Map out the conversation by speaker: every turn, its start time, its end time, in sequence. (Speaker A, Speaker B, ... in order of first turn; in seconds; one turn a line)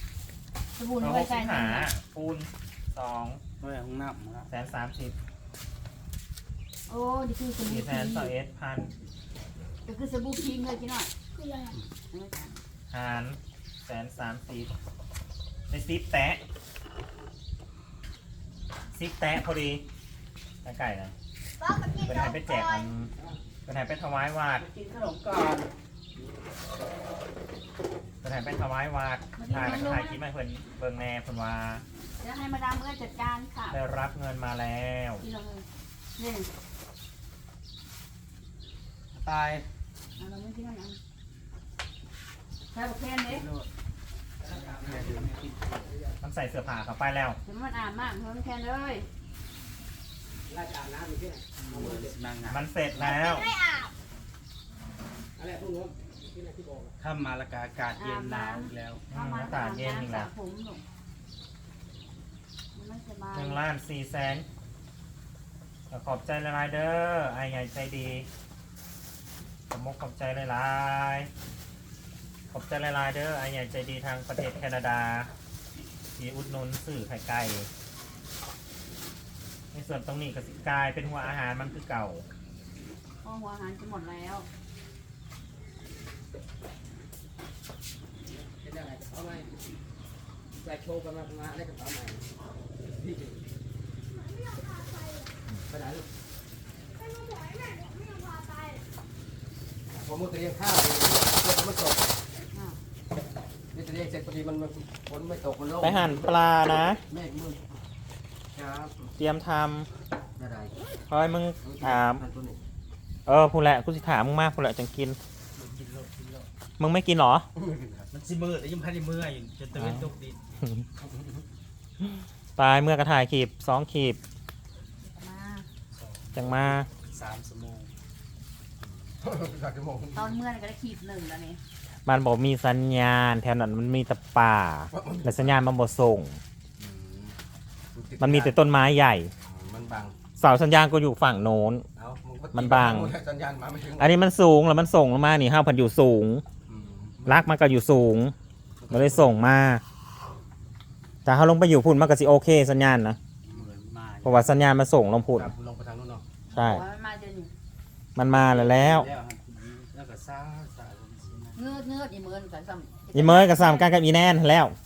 Speaker A: 0.8-1.9
Speaker B: 1.0-3.4
Speaker C: 3.6-4.5
Speaker B: 4.5-5.1
Speaker A: 6.9-8.3
Speaker B: 7.7-8.9
Speaker A: 9.8-11.1
Speaker D: 11.3-11.7
Speaker A: 12.1-12.6
Speaker B: 12.9-14.7
Speaker B: 15.7-16.4
Speaker B: 18.9-19.8
Speaker B: 20.6-21.1
Speaker D: 21.6-22.9
Speaker B: 22.0-23.1
Speaker B: 23.6-24.6
Speaker C: 24.6-25.7
Speaker B: 28.2-31.8
Speaker A: 29.4-30.2
Speaker A: 32.2-33.8
Speaker B: 33.7-35.2
Speaker A: 35.2-35.6
Speaker A: 36.1-36.5
Speaker C: 39.1-39.6
Speaker A: 40.2-41.0
Speaker A: 42.7-43.5
Speaker C: 43.3-43.7
Speaker C: 44.5-45.9
Speaker E: 44.5-45.3
Speaker B: 46.2-47.4
Speaker A: 47.4-49.1
Speaker E: 50.5-52.1
Speaker C: 51.6-52.6
Speaker B: 52.4-53.5
Speaker D: 53.0-53.9
Speaker E: 55.4-56.9
Speaker C: 57.0-59.0
Speaker A: 58.0-60.8
Speaker B: 59.1-60.3
Speaker A: 62.7-63.6
Speaker B: 63.3-64.4
Speaker B: 65.9-68.3
Speaker B: 69.7-71.3
Speaker B: 72.5-75.3
Speaker B: 76.2-77.7
Speaker B: 79.7-82.2
Speaker A: 83.2-84.5
Speaker E: 88.3-89.5
Speaker E: 90.6-92.2
Speaker E: 93.0-93.4
Speaker E: 95.7-96.0
Speaker D: 97.1-98.8
Speaker E: 99.9-102.0
Speaker A: 102.5-102.8
Speaker E: 103.7-106.2
Speaker B: 105.8-107.0
Speaker E: 107.1-107.6
Speaker E: 108.5-109.1
Speaker B: 109.2-109.9
Speaker E: 110.4-110.7
Speaker B: 111.1-112.2
Speaker E: 111.6-112.6
Speaker B: 113.2-115.2
Speaker C: 115.5-116.5
Speaker B: 116.8-117.5
Speaker E: 117.6-118.0
Speaker C: 118.1-120.4
Speaker B: 119.8-120.1
Speaker B: 122.6-124.2
Speaker A: 125.0-125.7
Speaker C: 125.9-127.9
Speaker B: 126.3-126.9
Speaker E: 129.2-130.3
Speaker A: 130.1-131.6
Speaker B: 132.1-136.4
Speaker E: 134.9-135.3
Speaker E: 136.8-137.3
Speaker E: 137.9-138.6
Speaker B: 138.2-139.3
Speaker E: 139.5-140.2
Speaker B: 140.4-141.8
Speaker E: 142.0-144.1
Speaker B: 142.5-143.1
Speaker B: 143.9-146.4
Speaker E: 146.7-147.4
Speaker B: 147.2-148.3
Speaker E: 148.8-149.3
Speaker B: 148.9-149.8
Speaker B: 151.2-153.2
Speaker C: 153.5-154.6
Speaker B: 154.2-155.5
Speaker E: 155.4-156.2
Speaker B: 156.5-156.8
Speaker A: 156.5-157.5
Speaker B: 158.2-159.1
Speaker C: 158.3-161.8
Speaker A: 161.6-164.0
Speaker B: 163.1-164.7